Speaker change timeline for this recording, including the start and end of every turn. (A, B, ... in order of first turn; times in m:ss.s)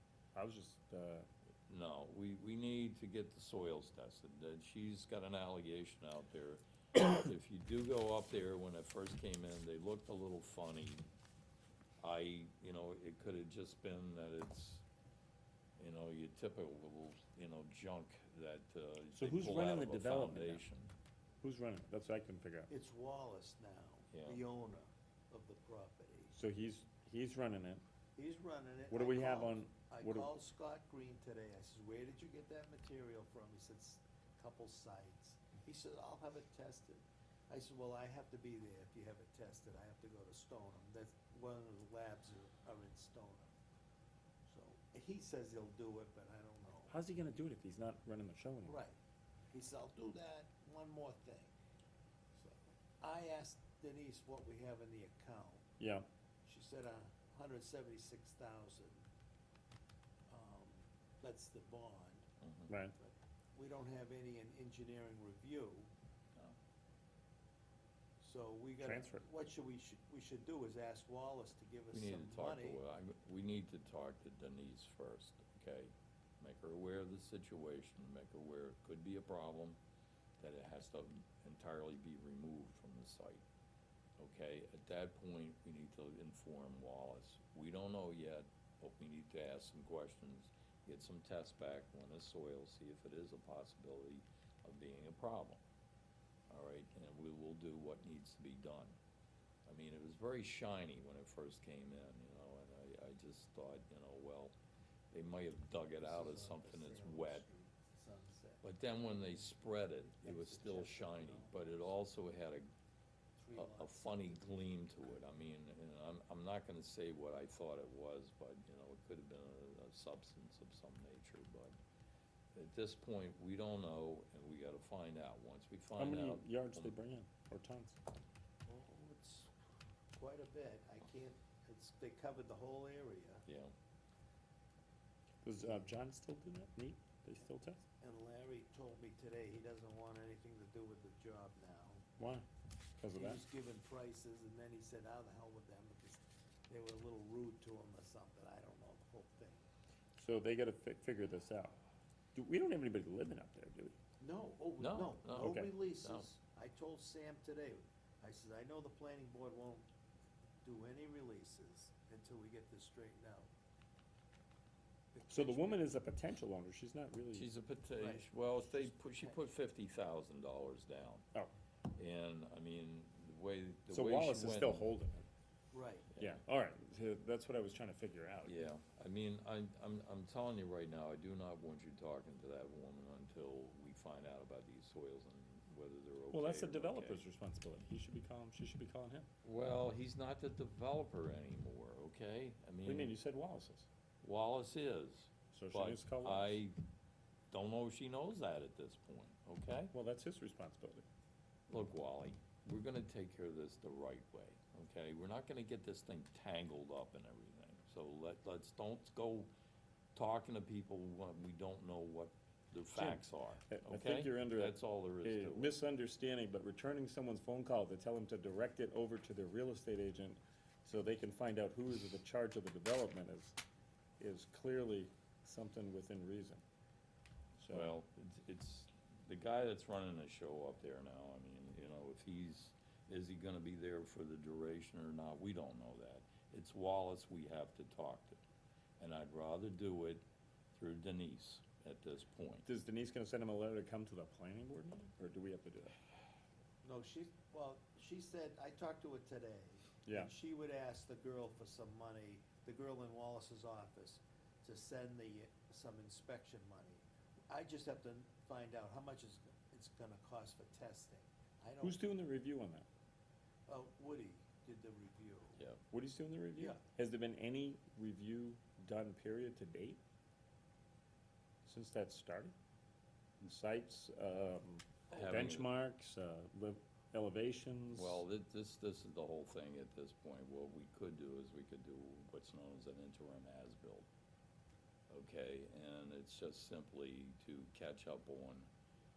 0:00.3-0:01.3 A
0:01.7-0:11.0 B
0:12.0-0:14.8 B
0:15.8-0:20.9 B
0:19.1-0:20.6 A
0:21.4-0:22.7 A
0:22.7-0:26.3 C
0:24.1-0:24.4 B
0:26.3-0:27.8 A
0:28.2-0:43.5 C
0:28.9-0:30.3 A
0:44.5-0:47.0 C
0:46.9-0:48.8 A
0:48.6-0:48.9 C
0:49.5-0:51.5 C
0:52.4-0:55.6 C
0:55.8-0:56.1 A
0:56.4-0:59.0 C
1:00.3-1:02.2 C
1:02.4-1:02.7 B
1:02.7-1:02.9 A
1:03.0-1:05.9 C
1:08.2-1:12.8 C
1:08.8-1:09.2 A
1:11.9-1:19.8 B
1:20.4-1:23.4 B
1:24.2-1:35.6 B
1:36.5-1:39.0 B
1:39.6-1:44.5 B
1:45.1-1:47.4 B
1:46.0-1:49.5 C
1:48.6-1:52.7 B
1:50.2-1:51.8 C
1:53.4-1:55.0 C
1:53.5-2:01.7 B
2:02.5-2:06.9 B
2:06.0-2:08.0 A
2:08.7-2:09.5 C
2:10.1-2:13.4 C
2:13.4-2:13.7 B
2:15.4-2:17.8 A
2:18.0-2:22.0 C
2:22.2-2:22.4 A
2:23.0-2:23.4 A
2:23.2-2:29.6 C
2:30.2-2:31.8 A
2:32.3-2:34.0 A
2:34.2-2:39.9 C
2:34.8-2:36.3 B
2:35.4-2:35.7 A
2:40.6-2:43.5 C
2:45.1-2:45.8 C
2:45.3-2:47.5 A
2:47.3-2:51.2 B
2:48.0-2:49.3 C
2:51.9-2:54.9 B
2:53.9-2:55.2 A
2:55.7-2:56.1 C
2:56.2-2:58.6 A
2:58.4-3:07.2 B
3:06.3-3:09.3 A
3:09.4-3:13.1 B
3:12.8-3:13.9 A
3:14.2-3:16.8 B
3:15.5-3:16.6 A
3:17.5-3:19.9 B
3:19.9-3:21.0 A
3:21.7-3:29.5 B
3:30.1-3:35.8 B
3:33.0-3:43.6 A
3:44.2-3:46.6 A
3:47.6-3:47.9 A
3:47.7-3:58.4 B
3:59.0-4:02.6 B
4:02.6-4:06.0 A
4:06.8-4:22.0 C
4:10.0-4:10.3 A
4:21.8-4:22.9 A
4:23.7-4:25.6 C
4:25.9-4:30.0 A
4:31.6-4:32.5 A
4:33.4-4:38.2 A
4:35.1-4:35.7 B
4:37.9-4:44.1 B
4:45.1-4:48.7 B